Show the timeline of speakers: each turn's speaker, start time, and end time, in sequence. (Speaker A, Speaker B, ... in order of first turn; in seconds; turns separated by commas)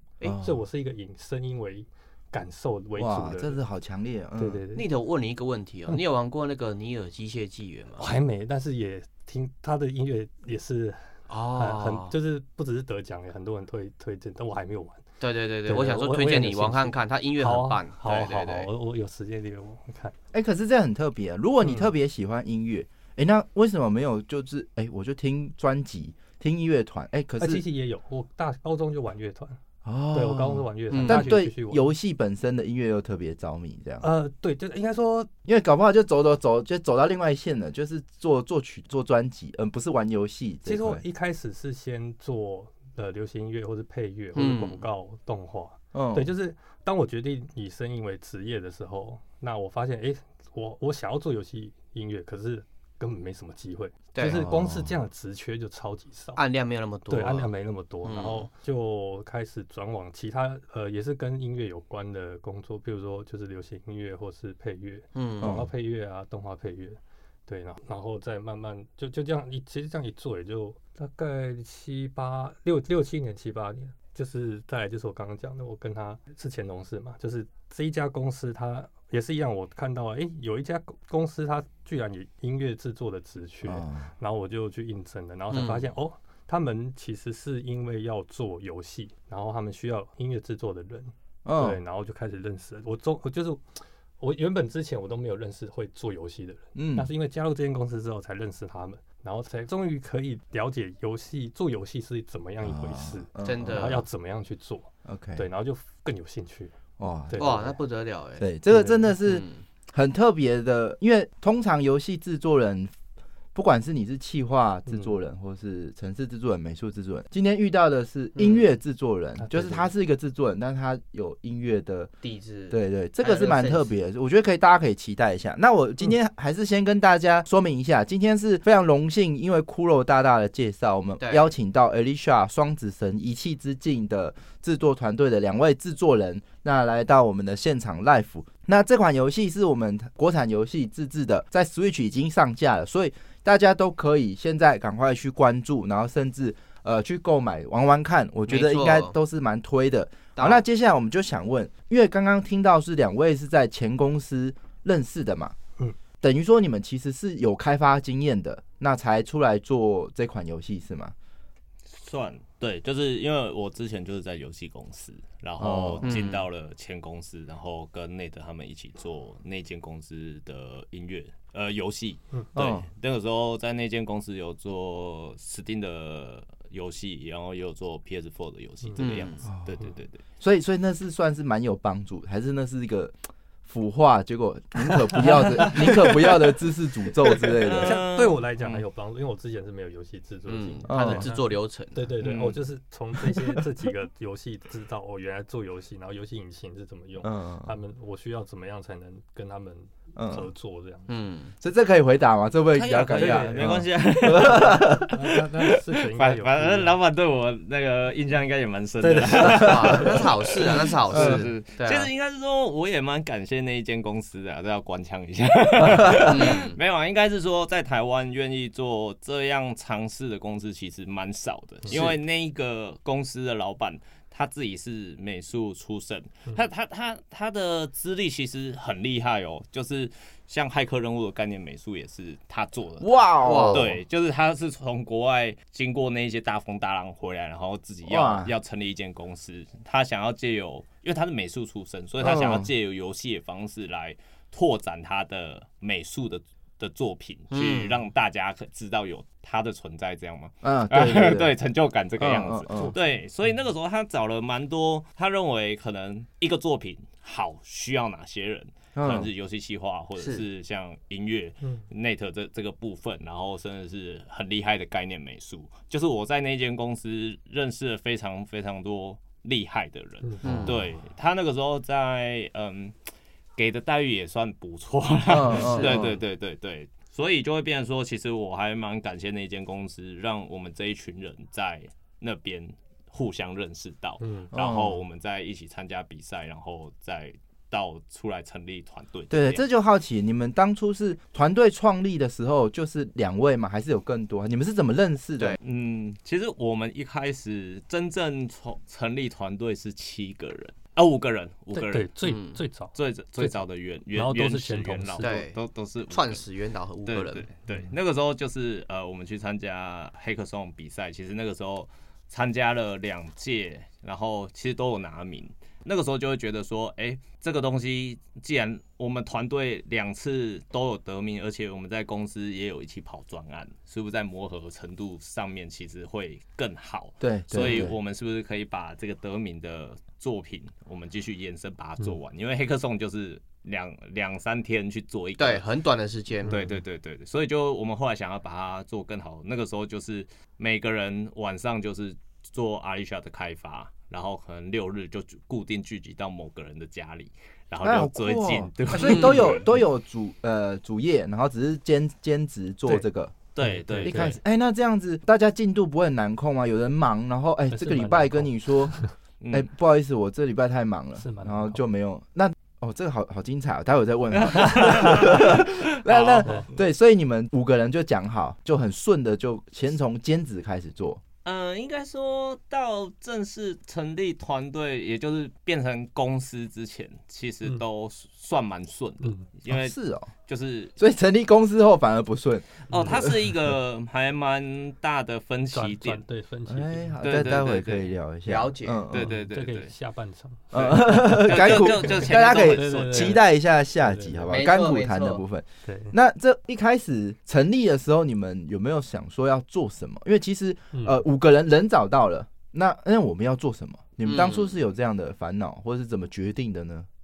Speaker A: 0.2-0.5, Speaker B: 0.4-3.6, Speaker A: 3.0-4.6, Speaker B: 4.4-4.9, Speaker C: 4.7-8.1, Speaker B: 8.0-15.0, Speaker C: 11.3-12.1, Speaker C: 15.2-18.7, Speaker B: 15.7-20.1, Speaker A: 20.3-27.6, Speaker B: 21.6-21.9, Speaker B: 27.4-29.6, Speaker A: 29.8-34.0, Speaker B: 30.1-31.9, Speaker C: 30.9-31.3, Speaker B: 34.0-35.3, Speaker A: 35.5-41.0, Speaker B: 40.6-56.4, Speaker C: 44.3-44.8, Speaker A: 45.9-46.3, Speaker C: 54.1-54.4, Speaker A: 54.2-54.9, Speaker C: 56.4-57.5, Speaker B: 57.1-93.6, Speaker C: 58.0-58.5, Speaker C: 65.1-65.6, Speaker A: 65.4-65.7, Speaker A: 83.6-84.1, Speaker C: 85.5-85.9, Speaker A: 91.4-91.8, Speaker B: 94.2-106.7, Speaker A: 96.7-97.1, Speaker A: 102.6-103.9, Speaker C: 103.4-104.0, Speaker A: 105.0-105.5, Speaker A: 107.0-107.7, Speaker B: 107.3-107.8, Speaker C: 107.4-108.5, Speaker A: 108.4-112.9, Speaker B: 108.7-109.1, Speaker C: 109.2-109.6, Speaker A: 113.5-122.1, Speaker B: 114.8-115.1, Speaker C: 118.3-118.7, Speaker B: 119.4-119.9, Speaker C: 122.2-123.9, Speaker A: 122.7-155.5, Speaker C: 131.2-131.5, Speaker C: 148.5-149.1, Speaker C: 150.3-150.6, Speaker A: 156.2-161.1, Speaker D: 161.9-180.2, Speaker A: 165.6-166.1, Speaker C: 166.0-166.4, Speaker A: 172.5-172.9, Speaker B: 178.8-179.1, Speaker C: 179.0-179.5, Speaker A: 179.4-179.8, Speaker A: 180.4-188.0, Speaker D: 187.6-188.7, Speaker B: 187.7-201.1, Speaker C: 190.5-192.1, Speaker A: 190.9-191.3, Speaker D: 192.2-192.6, Speaker A: 197.2-197.7, Speaker A: 200.2-200.5, Speaker C: 201.1-201.5, Speaker A: 201.6-205.1, Speaker D: 202.7-205.1, Speaker B: 203.1-203.8, Speaker B: 204.5-207.0, Speaker D: 205.9-272.9, Speaker B: 209.0-210.2, Speaker C: 209.5-212.1, Speaker A: 211.1-211.4, Speaker A: 216.0-216.3, Speaker C: 216.2-216.8, Speaker C: 221.9-222.2, Speaker A: 233.0-233.9, Speaker C: 233.4-233.9, Speaker A: 238.1-238.5, Speaker A: 242.2-242.7, Speaker C: 247.5-248.0, Speaker A: 250.6-251.5, Speaker A: 252.2-252.9, Speaker B: 252.7-253.2, Speaker A: 258.9-259.3, Speaker C: 260.2-260.4, Speaker B: 270.2-270.6, Speaker C: 270.4-270.8, Speaker D: 273.6-289.6, Speaker A: 275.3-276.2, Speaker C: 275.6-276.1, Speaker B: 284.2-284.5, Speaker A: 284.5-285.0, Speaker A: 289.3-295.6, Speaker D: 295.6-302.1, Speaker B: 301.7-303.6, Speaker C: 302.2-302.6, Speaker D: 302.9-306.4, Speaker B: 304.1-305.4, Speaker C: 305.2-305.6, Speaker C: 306.1-307.5, Speaker D: 307.0-335.6, Speaker A: 327.2-327.9, Speaker C: 335.4-336.6, Speaker D: 336.4-349.7, Speaker B: 336.5-336.8, Speaker A: 347.8-353.4, Speaker D: 353.5-354.4, Speaker B: 353.6-354.4, Speaker A: 354.0-359.0, Speaker B: 357.7-359.1, Speaker D: 359.4-359.7, Speaker A: 359.5-371.2, Speaker B: 361.2-361.8, Speaker D: 364.3-366.6, Speaker D: 371.4-380.9, Speaker B: 379.2-379.5, Speaker A: 379.7-380.3, Speaker A: 381.0-383.4, Speaker D: 382.9-386.2, Speaker B: 382.9-383.3, Speaker B: 385.7-387.2, Speaker A: 386.7-389.3, Speaker D: 387.2-388.1, Speaker C: 388.4-389.1, Speaker D: 389.1-389.9, Speaker B: 389.1-393.4, Speaker A: 390.7-407.1, Speaker D: 390.7-393.4, Speaker B: 394.0-394.5, Speaker C: 394.5-395.4, Speaker B: 395.8-396.1, Speaker B: 400.9-401.2, Speaker C: 404.2-404.7